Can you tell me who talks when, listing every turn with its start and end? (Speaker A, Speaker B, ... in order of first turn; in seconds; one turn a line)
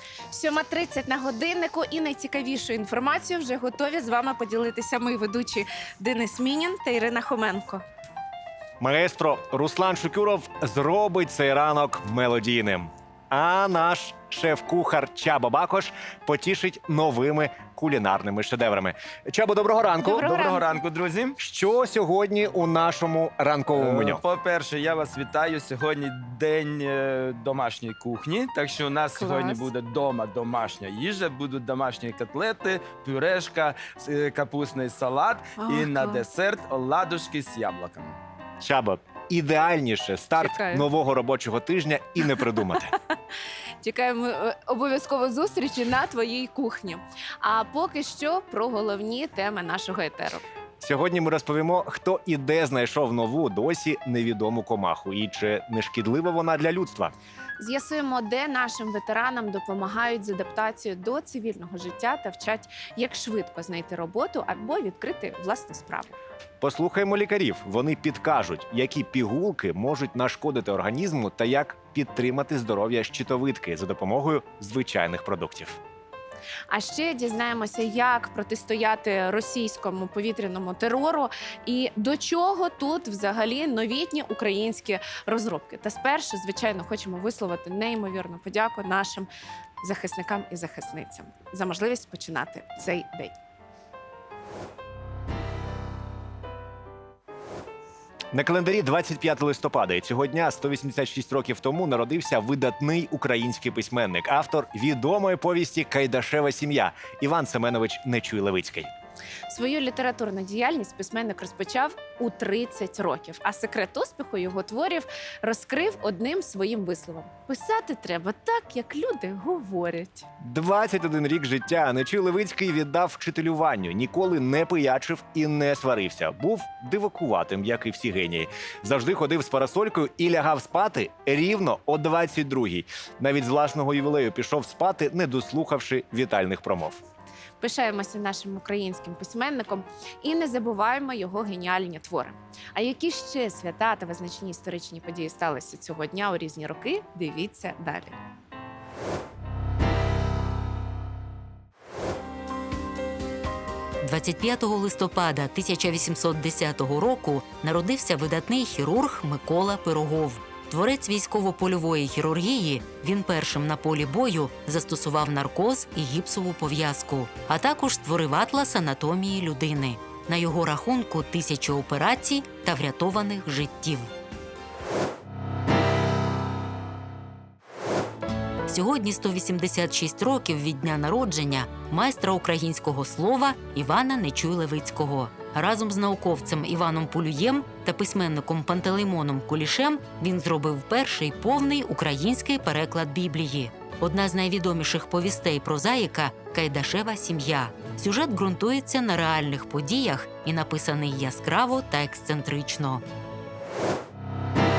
Speaker A: 0.3-7.8
Speaker B: 8.8-20.4
Speaker A: 20.1-20.6
Speaker C: 20.2-21.4
Speaker B: 21.4-24.2
Speaker C: 23.8-38.2
Speaker A: 29.2-29.7
Speaker A: 35.6-36.2
Speaker B: 38.6-43.0
Speaker A: 40.4-40.9
Speaker A: 43.8-50.4
Speaker B: 50.8-57.1
Speaker A: 57.6-66.2
Speaker B: 66.6-75.8
Speaker A: 76.7-89.3
Speaker A: 89.8-93.3
Speaker B: 98.3-108.9
Speaker A: 109.5-120.3
Speaker B: 120.4-137.0
Speaker A: 137.6-148.1
Speaker D: 154.0-174.1
Speaker D: 178.7-203.0